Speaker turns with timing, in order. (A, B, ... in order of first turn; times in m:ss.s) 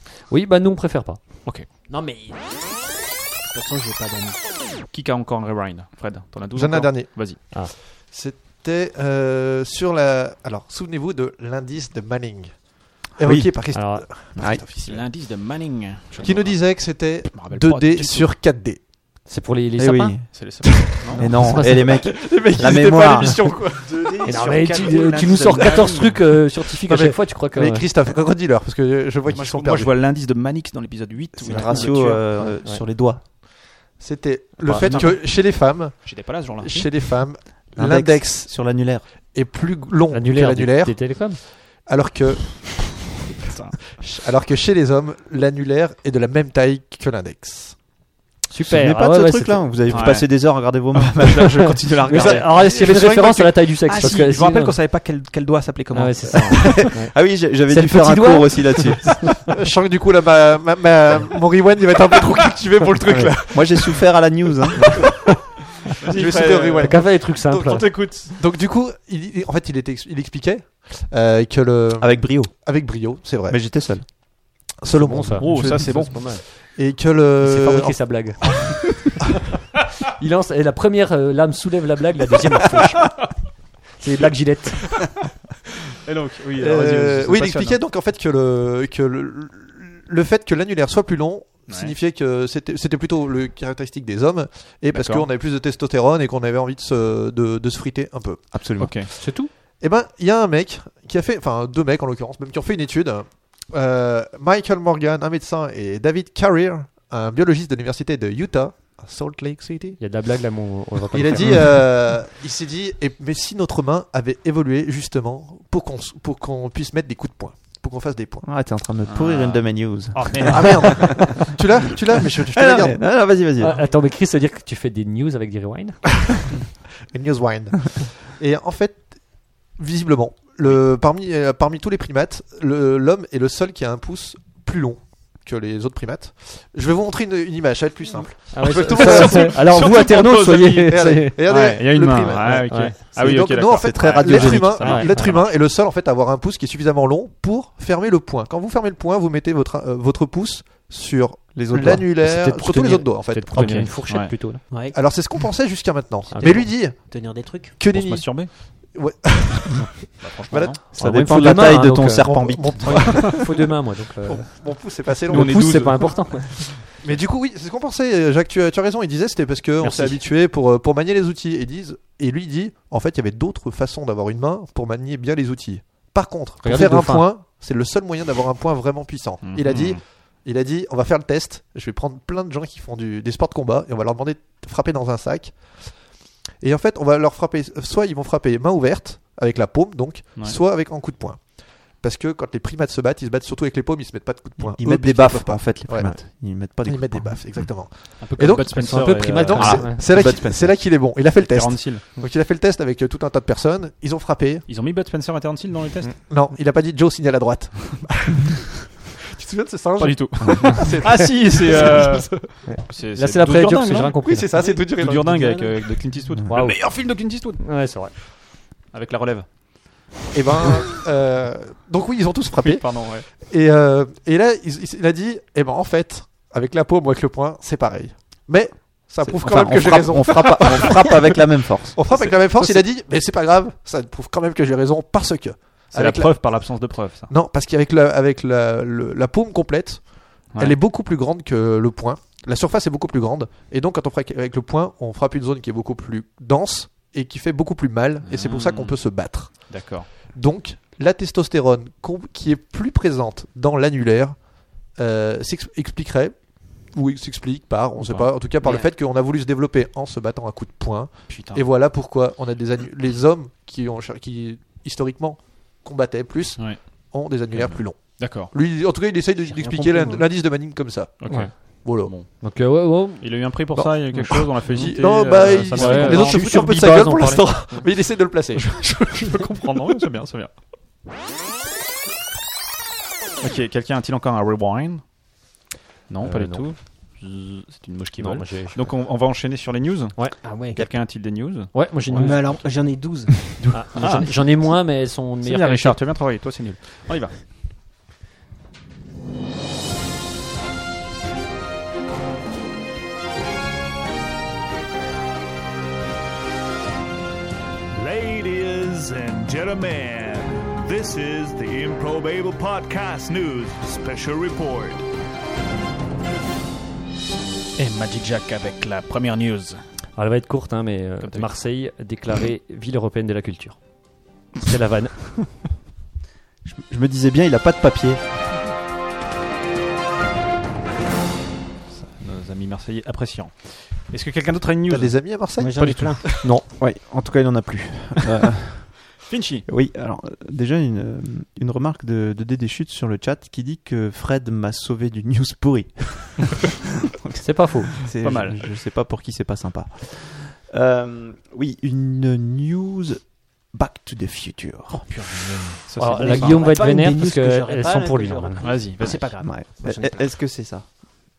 0:00.3-0:01.2 A
0:01.9-0:02.7 B
0:03.5-0:04.4 B
0:04.9-0:07.4 C
0:06.5-0:15.0 D
0:13.2-0:14.6 E
0:13.7-0:14.0 A
0:14.8-0:18.3 C
0:16.2-0:18.8 D
0:19.2-0:20.4 A
0:19.8-0:23.5 E
0:20.3-0:21.2 C
0:20.7-0:26.0 D
0:21.2-0:22.0 A
0:24.0-0:26.3 C
0:24.2-0:27.9 A
0:26.6-0:29.9 D
0:29.3-0:32.2 C
0:31.4-0:33.2 E
0:31.7-0:32.1 D
0:32.4-0:32.8 A
0:34.0-0:38.8 D
0:34.6-0:35.1 A
0:34.7-0:35.5 C
0:36.0-0:36.9 C
0:37.8-0:39.0 E
0:39.3-0:47.8 D
0:40.1-0:41.4 A
0:43.4-0:44.0 C
0:48.5-0:50.0 A
0:48.6-0:51.8 E
0:49.9-0:52.8 C
0:52.0-0:54.8 A
0:52.1-0:54.1 D
0:53.8-0:56.9 C
0:55.9-0:59.5 A
0:56.6-0:59.3 E
0:59.5-1:04.0 D
1:03.0-1:03.3 A
1:03.5-1:05.1 E
1:06.0-1:08.3 C
1:06.0-1:13.6 D
1:06.8-1:08.1 A
1:12.0-1:12.5 E
1:13.5-1:14.1 E
1:14.8-1:15.9 D
1:14.9-1:16.4 A
1:15.4-1:16.2 C
1:15.5-1:16.1 E
1:16.5-1:18.6 D
1:17.4-1:19.2 A
1:20.1-1:23.2 A
1:24.0-1:25.1 A
1:26.0-1:27.8 C
1:26.6-1:39.2 D
1:31.7-1:31.9 C
1:34.9-1:35.3 C
1:38.5-1:39.1 E
1:38.8-1:39.1 C
1:39.2-1:39.5 A
1:39.8-1:50.0 D
1:50.0-1:51.8 A
1:51.1-1:58.5 D
1:58.4-2:01.5 E
1:59.0-2:01.4 C
2:00.4-2:03.1 D
2:02.3-2:03.8 E
2:03.6-2:06.0 A
2:07.1-2:09.2 D
2:09.7-2:34.0 D
2:18.5-2:21.5 A
2:18.9-2:25.4 C
2:22.5-2:23.1 A
2:23.8-2:25.0 E
2:24.2-2:25.4 A
2:31.5-2:32.4 E
2:32.2-2:34.7 A
2:33.5-2:34.4 C
2:34.9-2:40.8 D
2:36.3-2:36.7 A
2:36.4-2:37.8 B
2:37.9-2:38.5 C
2:40.2-2:40.8 C
2:40.9-2:47.0 A
2:41.0-2:43.3 E
2:41.4-2:46.1 D
2:42.9-2:43.3 C
2:45.3-2:47.1 C
2:45.4-2:46.0 E
2:47.0-3:06.0 D
2:49.8-2:50.1 A
2:56.6-2:57.3 A
2:59.4-3:00.0 C
3:06.6-3:24.6 D
3:14.6-3:17.6 E
3:18.2-3:19.9 C
3:18.7-3:20.3 A
3:19.6-3:20.8 E
3:21.4-3:22.0 C
3:24.7-3:26.1 C
3:26.2-3:32.6 D
3:30.0-3:37.6 C
3:32.7-3:34.9 A
3:34.2-3:35.9 D
3:36.5-3:38.1 A
3:38.9-3:39.5 C
3:40.3-3:56.7 D
3:42.6-3:43.3 C
3:49.2-3:52.4 E
3:55.9-3:57.3 C
3:57.3-4:32.1 D
4:08.2-4:09.0 C
4:09.5-4:10.1 C
4:18.0-4:18.3 C
4:21.3-4:21.6 C
4:27.5-4:28.5 C
4:29.7-4:30.0 B
4:31.2-4:32.4 C
4:31.3-4:31.7 A
4:32.3-4:33.6 A
4:33.2-4:36.5 C
4:33.7-4:38.7 D
4:35.5-4:37.8 A
4:38.5-4:40.5 C
4:43.4-4:45.0 C
4:46.1-4:52.5 C
4:46.2-4:46.7 A
4:48.2-4:48.8 A
4:50.4-4:50.8 B
4:51.7-4:52.6 A
4:52.1-4:53.4 B
4:53.6-4:54.6 C
4:53.7-4:56.0 A
4:55.4-4:57.4 C
5:07.9-5:15.0 F
5:17.8-5:19.8 C
5:20.2-5:23.8 A
5:21.2-5:21.5 C
5:24.5-5:25.4 A
5:26.6-5:28.2 E
5:31.9-5:36.5 C
5:34.9-5:36.5 D
5:35.6-5:36.2 B
5:36.7-5:39.0 E
5:39.2-5:39.6 C
5:39.7-5:55.2 E
5:47.4-5:47.9 A
5:48.2-5:48.6 C
5:54.9-5:56.6 C
5:56.0-5:58.7 A
5:56.1-6:00.3 B
5:58.6-5:59.3 C
5:59.2-6:00.8 E